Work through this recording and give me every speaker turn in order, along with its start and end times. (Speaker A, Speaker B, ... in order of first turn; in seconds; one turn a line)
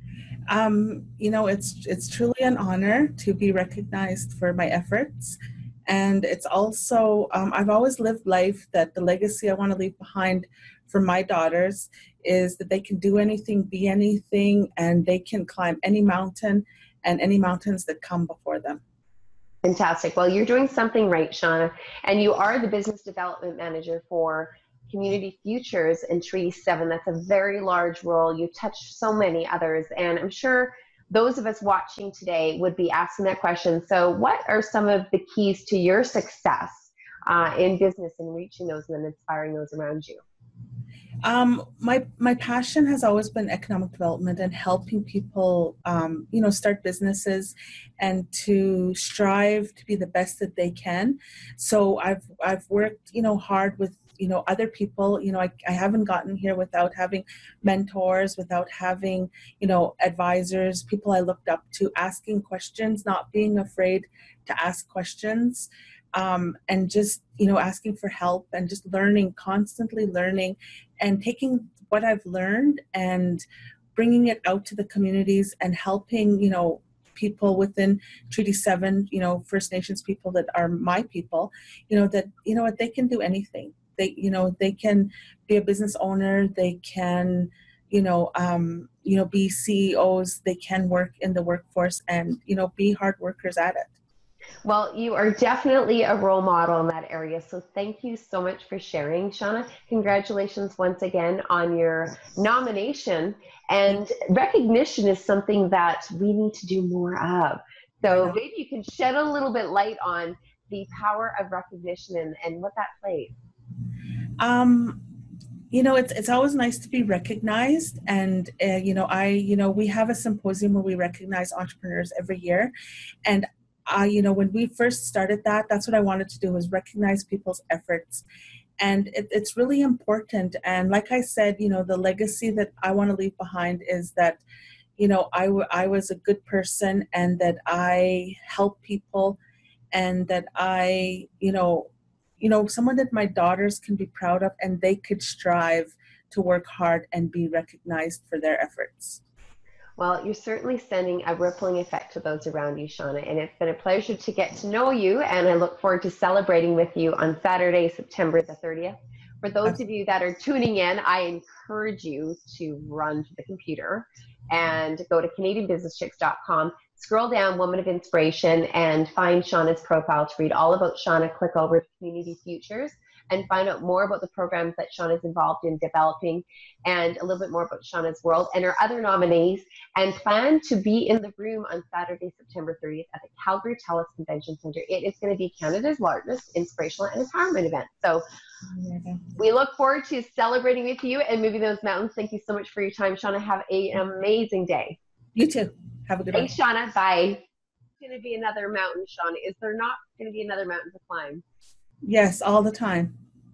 Speaker A: 0.5-18.8
Speaker B: 19.6-40.2
Speaker A: 41.2-73.4
Speaker A: 74.0-94.0
Speaker B: 94.6-113.3
Speaker A: 108.1-108.4
Speaker A: 114.4-115.0
Speaker A: 115.7-122.7
Speaker A: 123.2-128.2
Speaker A: 128.8-134.4
Speaker A: 135.0-139.4
Speaker A: 139.9-149.2
Speaker B: 150.0-188.2
Speaker A: 188.7-189.3
Speaker B: 189.4-195.0
Speaker A: 195.3-196.5
Speaker B: 196.3-197.4
Speaker B: 198.0-201.4
Speaker A: 202.0-203.1